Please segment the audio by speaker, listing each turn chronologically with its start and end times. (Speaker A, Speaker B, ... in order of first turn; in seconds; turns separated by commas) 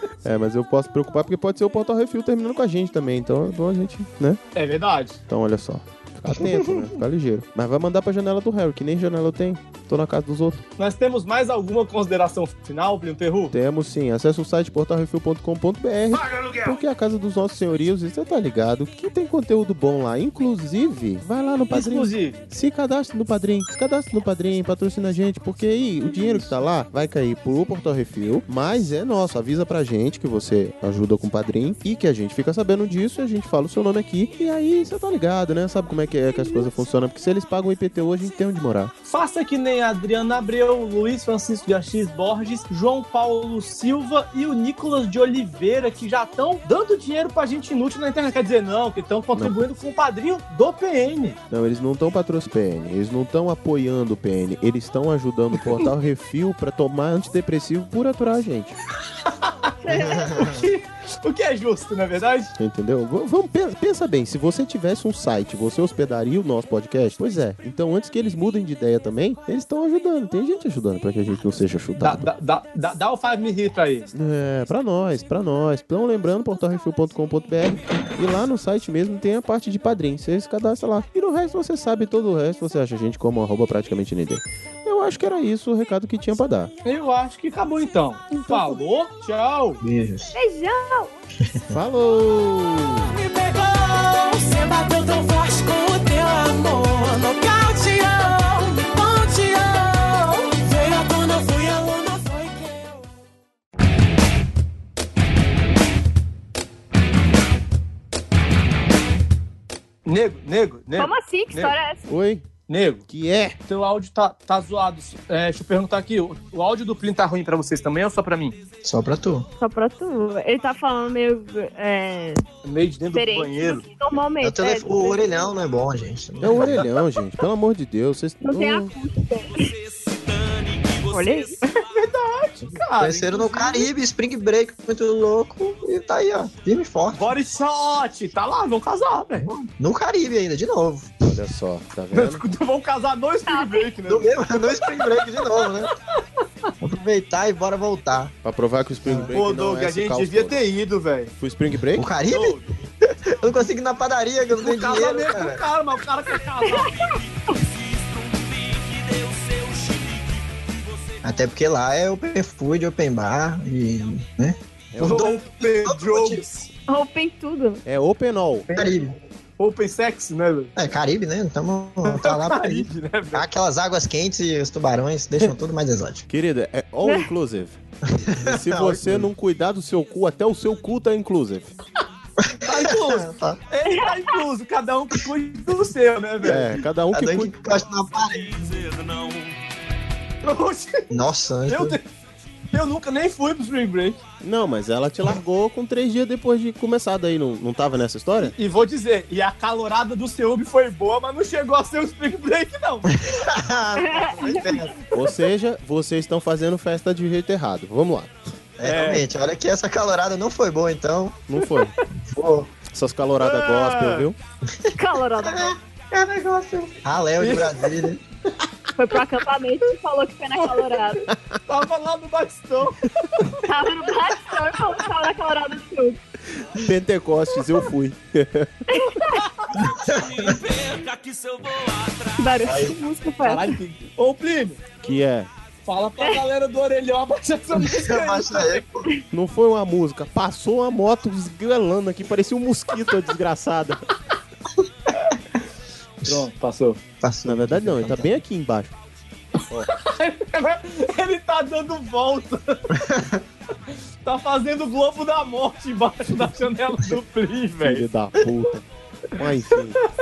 Speaker A: 0.2-4.4, Speaker B: 4.5-5.2, Speaker A: 5.3-10.6, Speaker B: 10.8-13.5, Speaker A: 13.5-38.9, Speaker C: 16.2-16.8, Speaker B: 21.7-22.4, Speaker B: 39.0-51.4, Speaker A: 51.5-58.8, Speaker B: 59.2-62.5, Speaker D: 59.8-60.6, Speaker E: 59.9-60.7, Speaker A: 62.6-72.3, Speaker B: 72.0-74.1, Speaker A: 74.1-86.7, Speaker B: 86.8-89.8, Speaker D: 88.5-88.8, Speaker E: 89.8-90.3, Speaker D: 90.3-91.1, Speaker A: 91.7-93.1, Speaker C: 93.1-103.1, Speaker B: 110.1-111.7, Speaker D: 111.0-112.0, Speaker A: 112.1-112.5, Speaker B: 112.7-113.0, Speaker A: 113.1-113.6, Speaker B: 113.7-118.6, Speaker E: 118.8-119.5, Speaker D: 119.6-122.4, Speaker B: 122.6-123.8, Speaker D: 123.1-125.5, Speaker E: 124.4-126.9, Speaker A: 126.4-128.9, Speaker D: 128.4-129.7, Speaker C: 129.5-131.6, Speaker D: 131.1-131.7, Speaker B: 131.8-133.9, Speaker E: 133.0-137.3, Speaker B: 137.1-139.5, Speaker E: 139.4-141.3, Speaker A: 141.3-142.4, Speaker B: 142.1-145.1, Speaker D: 143.5-143.9, Speaker E: 144.1-145.9, Speaker E: 146.8-148.3, Speaker A: 148.4-150.6, Speaker E: 149.1-149.3, Speaker B: 149.3-151.3, Speaker A: 151.4-152.1, Speaker E: 151.9-152.6, Speaker B: 152.3-152.6, Speaker E: 153.3-155.6, Speaker B: 154.5-156.9, Speaker D: 156.6-157.1, Speaker C: 156.8-161.3, Speaker E: 161.2-166.4, Speaker A: 164.9-165.3, Speaker B: 165.0-166.7, Speaker D: 166.9-167.8, Speaker A: 167.8-168.7, Speaker E: 168.7-169.2, Speaker B: 169.6-170.7, Speaker E: 170.8-176.2, Speaker B: 172.1-173.5, Speaker A: 176.3-177.8, Speaker E: 178.1-179.3, Speaker A: 178.4-181.7, Speaker E: 182.4-183.6, Speaker B: 182.6-186.8, Speaker D: 183.8-184.4, Speaker A: 186.4-187.5, Speaker E: 187.1-188.5, Speaker C: 187.7-189.6, Speaker B: 190.4-191.1, Speaker E: 191.1-192.0, Speaker B: 191.7-192.1, Speaker B: 192.7-194.2, Speaker A: 194.4-198.5, Speaker B: 198.4-203.2, Speaker E: 203.2-205.0, Speaker D: 204.0-204.8, Speaker A: 205.1-208.4, Speaker E: 208.8-211.4, Speaker B: 208.8-209.2, Speaker A: 211.5-211.9, Speaker E: 212.3-212.7, Speaker A: 212.9-214.4, Speaker B: 213.4-214.3, Speaker E: 214.7-218.2, Speaker D: 215.0-215.8, Speaker B: 217.4-217.9, Speaker D: 219.0-221.3, Speaker B: 221.7-223.7, Speaker D: 223.7-226.2, Speaker A: 226.7-228.8, Speaker D: 228.9-229.4, Speaker C: 229.7-232.9, Speaker E: 229.8-230.6, Speaker D: 232.4-233.8, Speaker E: 232.6-233.0, Speaker B: 233.4-234.8, Speaker A: 235.0-235.5, Speaker B: 235.9-238.8, Speaker E: 237.7-239.1, Speaker A: 239.3-244.0, Speaker B: 246.2-247.0, Speaker E: 247.2-248.4, Speaker A: 247.4-248.9, Speaker B: 249.9-252.8, Speaker E: 252.9-253.4, Speaker B: 254.2-258.1, Speaker A: 257.8-260.0